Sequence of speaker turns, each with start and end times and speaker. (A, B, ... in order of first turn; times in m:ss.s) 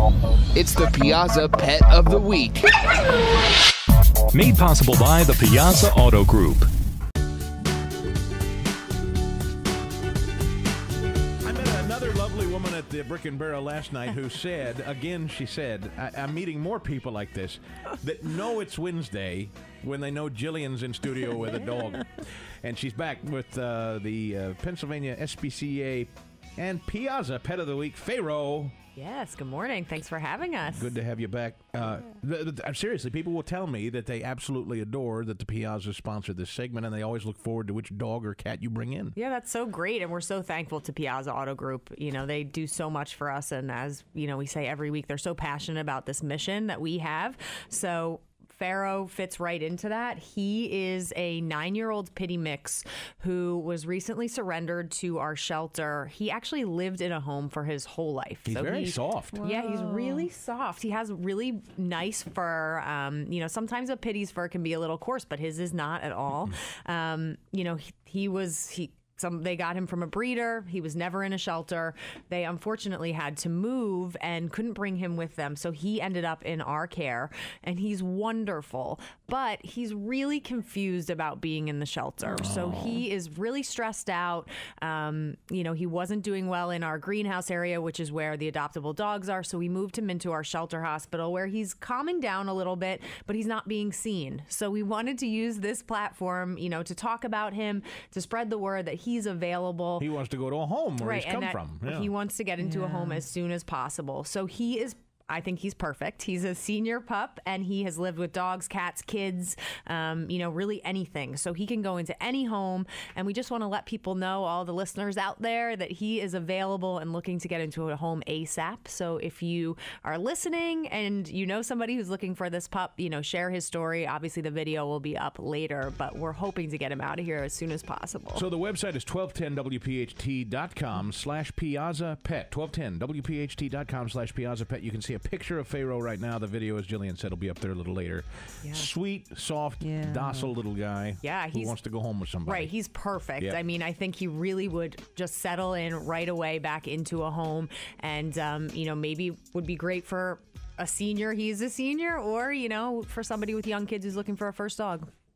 0:00.5-0:02.7 A
0:04.3-0:06.7 B
0:11.4-0:28.7 C
0:29.0-0:30.9 D
0:30.7-0:39.2 C
0:39.2-1:40.1 D
0:58.4-0:59.4 C
0:59.3-1:00.3 B
1:22.2-1:23.0 C
1:40.0-1:42.1 C
1:41.0-2:08.5 D
1:42.6-1:43.2 B
2:08.3-2:22.7 C
2:18.6-2:18.9 D
2:19.8-2:20.5 B
2:21.2-2:21.8 D
2:22.4-2:35.1 D